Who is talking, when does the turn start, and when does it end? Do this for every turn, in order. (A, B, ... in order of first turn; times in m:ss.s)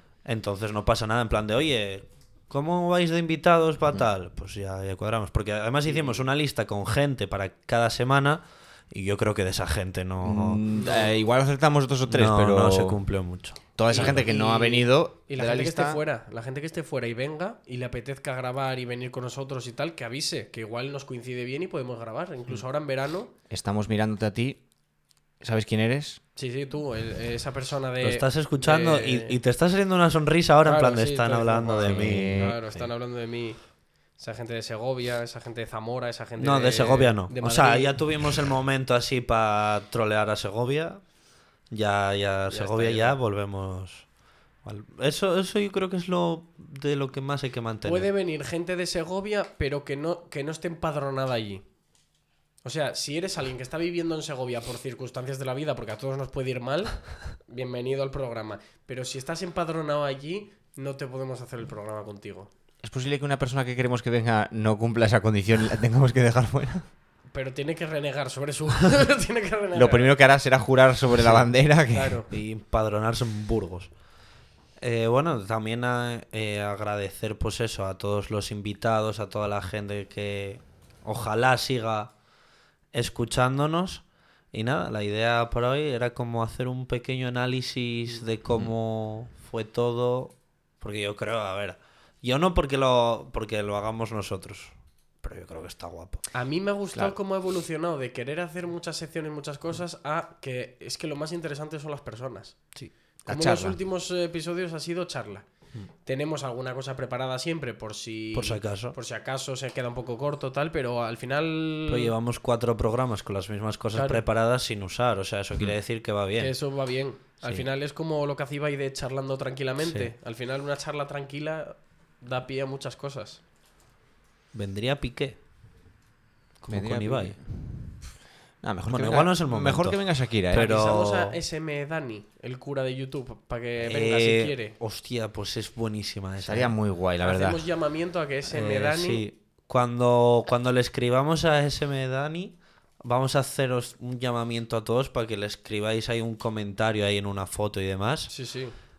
0:00.2-0:10.6 A
0:05.9-0:06.2 B
0:10.2-0:13.2 C
0:10.7-0:11.2 B
0:12.1-0:14.3 A
0:13.8-0:16.0 C
0:13.9-0:23.3 B
0:23.5-0:24.6 C
0:25.4-0:26.2 C
0:26.4-0:29.4 B
0:28.0-0:32.5 A
0:30.6-0:38.0 B
0:31.9-0:32.9 C
0:36.4-0:41.0 A
0:41.7-0:44.1 A
0:42.5-0:43.2 B
0:44.6-0:48.1 A
0:47.8-0:51.7 B
0:52.6-1:02.5 B
1:02.8-1:06.9 C
1:07.3-1:10.2 B
1:09.7-1:12.2 C
1:11.9-1:12.3 B
1:12.3-1:13.9 A
1:14.8-1:22.1 A
1:22.9-1:36.2 A
1:36.3-1:42.6 B
1:43.2-1:43.8 C
1:43.3-1:52.1 B
1:48.3-1:49.0 A
1:51.9-1:56.6 A
1:53.9-1:54.2 B
1:56.4-2:03.4 B
1:59.8-2:00.1 A
2:04.5-2:05.4 A
2:06.6-2:07.6 A
2:06.7-2:07.7 C
2:08.6-2:10.7 C
2:08.9-2:11.4 A
2:10.5-2:14.8 B
2:13.8-2:16.8 A
2:16.4-2:17.7 C
2:17.2-2:19.2 B
2:18.5-2:28.3 A
2:28.3-2:28.8 B